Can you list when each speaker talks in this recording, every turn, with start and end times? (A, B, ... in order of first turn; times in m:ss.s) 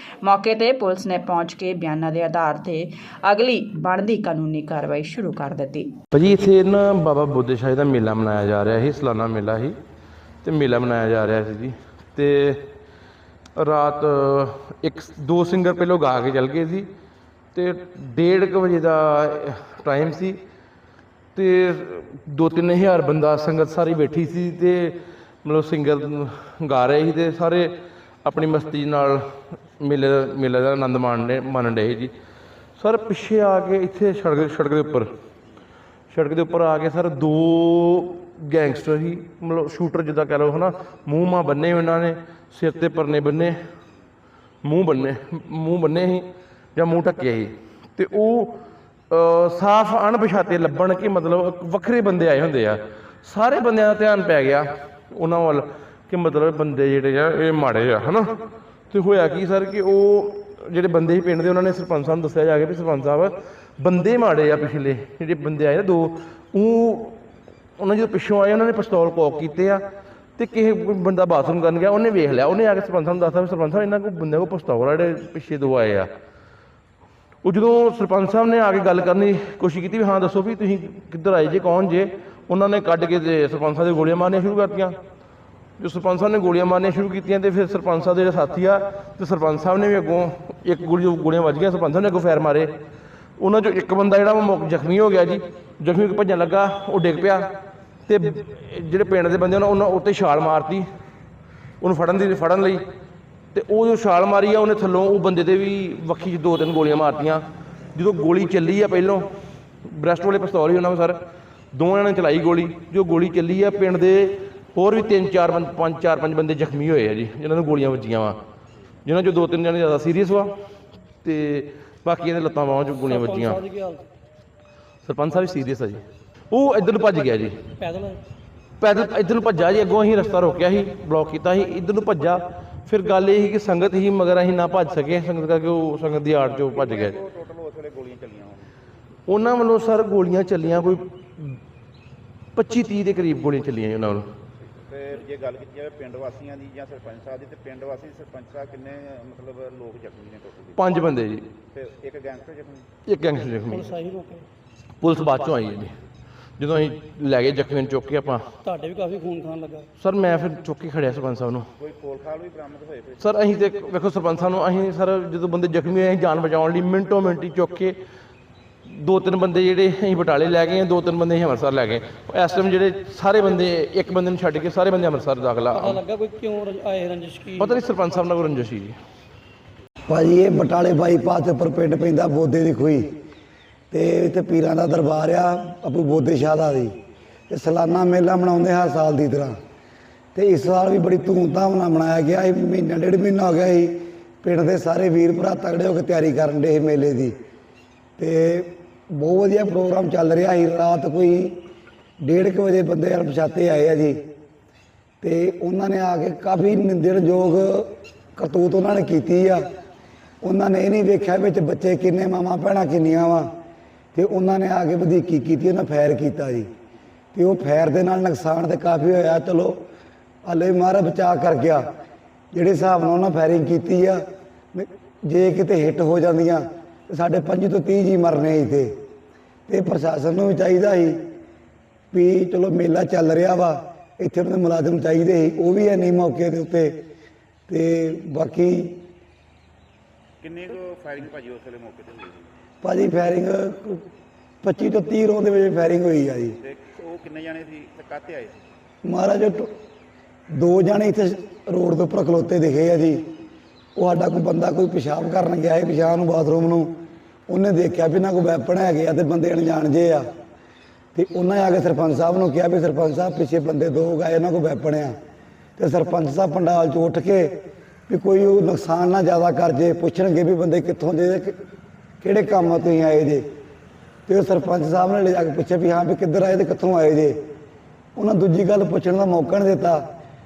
0:00.2-0:05.9 A
0:06.1-0:09.8 B
0:10.4-0:12.6 B
0:13.6-0:16.9 B
0:17.5-0:20.4 B
0:21.3-0:27.7 B
0:28.2-0:29.2 B
0:29.8-0:32.1 B
0:32.8-0:35.1 B
0:36.1-0:43.6 B
0:44.6-0:48.5 B
0:49.1-0:58.3 B
0:58.9-1:07.2 B
1:07.8-1:09.8 B
1:10.4-1:16.1 B
1:17.4-1:24.9 B
1:25.8-1:32.7 B
1:33.4-1:37.4 B
1:38.1-1:40.8 B
1:41.8-1:42.8 B
1:43.5-1:47.4 B
1:47.9-1:49.2 B
1:49.8-1:51.2 B
1:51.7-1:58.4 B
1:59.0-2:00.5 B
2:01.2-2:03.6 B
2:03.1-2:04.1 C
2:05.0-2:07.6 B
2:07.8-2:08.2 C
2:08.8-2:17.2 B
2:16.7-2:18.7 D
2:19.3-2:21.6 B
2:22.6-2:24.3 B
2:24.9-2:32.8 D
2:30.8-2:31.4 B
2:33.1-2:34.0 B
2:33.7-2:34.5 C
2:35.0-2:35.9 B
2:36.6-2:38.5 B
2:38.6-2:39.9 C
2:40.0-2:41.7 B
2:41.8-2:43.4 D
2:43.2-2:47.9 B
2:48.9-2:56.0 B
2:55.7-2:57.8 C
2:57.6-2:58.9 B
3:00.1-3:03.1 E
3:03.9-3:06.9 E
3:07.5-3:09.6 E
3:10.3-3:17.3 E
3:18.2-3:21.6 E
3:22.2-3:24.2 E
3:25.2-3:29.7 E
3:30.4-3:33.5 E
3:34.1-3:36.7 E
3:37.3-3:39.8 E
3:40.4-3:41.9 E
3:42.5-3:48.9 E
3:49.7-3:51.2 E
3:52.1-3:57.0 E
3:57.7-3:59.0 E
4:00.4-4:02.5 D
4:02.8-4:04.0 E
4:04.6-4:06.6 E
4:06.6-4:08.7 D
4:09.0-4:09.7 E
4:10.5-4:13.2 E
4:14.0-4:16.9 E
4:17.5-4:20.3 E
4:21.1-4:25.2 E
4:25.8-4:31.6 E
4:32.2-4:33.5 E
4:34.3-4:37.4 E
4:38.2-4:40.1 E